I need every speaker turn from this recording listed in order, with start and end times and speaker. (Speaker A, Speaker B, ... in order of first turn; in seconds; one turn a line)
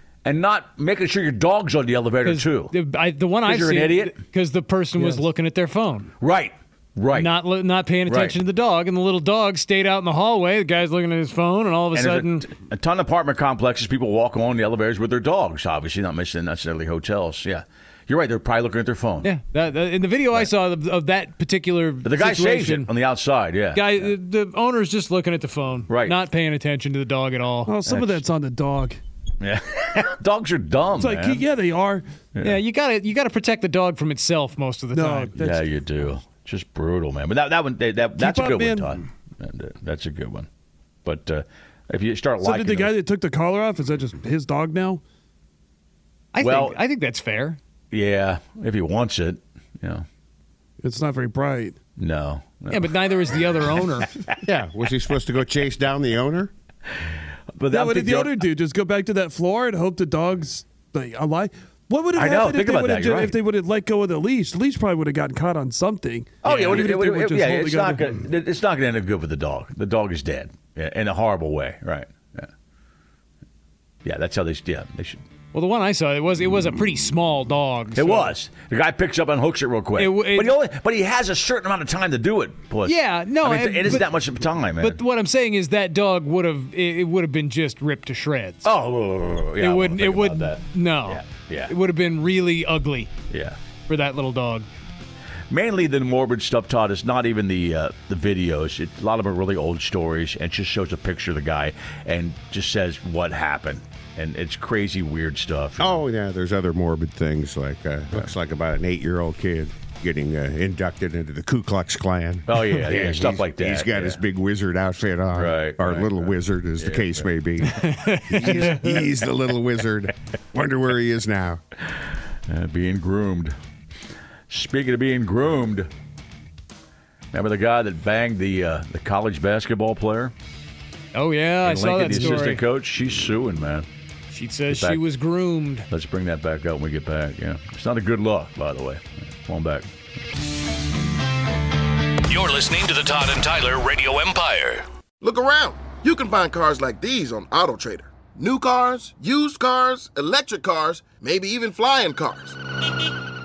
Speaker A: 0.2-2.7
Speaker B: 2.2-6.1
Speaker A: 3.4-4.1
Speaker C: 5.0-5.2
Speaker A: 6.2-7.4
Speaker B: 7.1-12.5
Speaker A: 8.1-8.3
Speaker A: 11.9-19.3
Speaker B: 19.2-22.9
Speaker A: 22.0-24.1
Speaker B: 23.7-27.7
Speaker A: 25.9-26.2
Speaker C: 27.6-29.0
Speaker A: 27.9-28.2
Speaker A: 29.4-31.4
Speaker C: 31.0-32.0
Speaker A: 32.3-32.6
Speaker B: 32.4-35.4
Speaker C: 34.9-35.9
Speaker A: 35.4-40.5
Speaker C: 38.2-39.0
Speaker A: 41.0-42.9
Speaker C: 42.4-45.0
Speaker B: 46.3-47.6
Speaker A: 46.4-46.8
Speaker A: 47.9-50.0
Speaker C: 50.8-51.8
Speaker A: 52.0-54.4
Speaker B: 52.7-54.1
Speaker D: 54.4-56.5
Speaker A: 57.6-58.3
Speaker C: 57.7-68.2
Speaker A: 62.1-63.4
Speaker A: 66.4-72.5
Speaker A: 74.0-75.2
Speaker B: 75.5-78.3
Speaker A: 77.9-85.0
Speaker B: 80.0-80.5
Speaker B: 82.8-84.1
Speaker B: 84.7-88.7
Speaker A: 88.6-91.7
Speaker B: 89.6-93.1
Speaker A: 93.3-93.6
Speaker B: 93.9-94.7
Speaker A: 95.5-106.0
Speaker D: 105.8-121.6
Speaker A: 112.5-114.2
Speaker A: 115.3-117.6
Speaker B: 117.8-118.7
Speaker A: 122.5-123.5
Speaker A: 124.5-125.9
Speaker A: 127.3-130.3
Speaker B: 131.1-132.6
Speaker A: 131.6-133.9
Speaker B: 134.3-135.9
Speaker A: 134.7-135.0
Speaker A: 135.9-139.8
Speaker E: 142.3-144.8
Speaker F: 145.2-152.6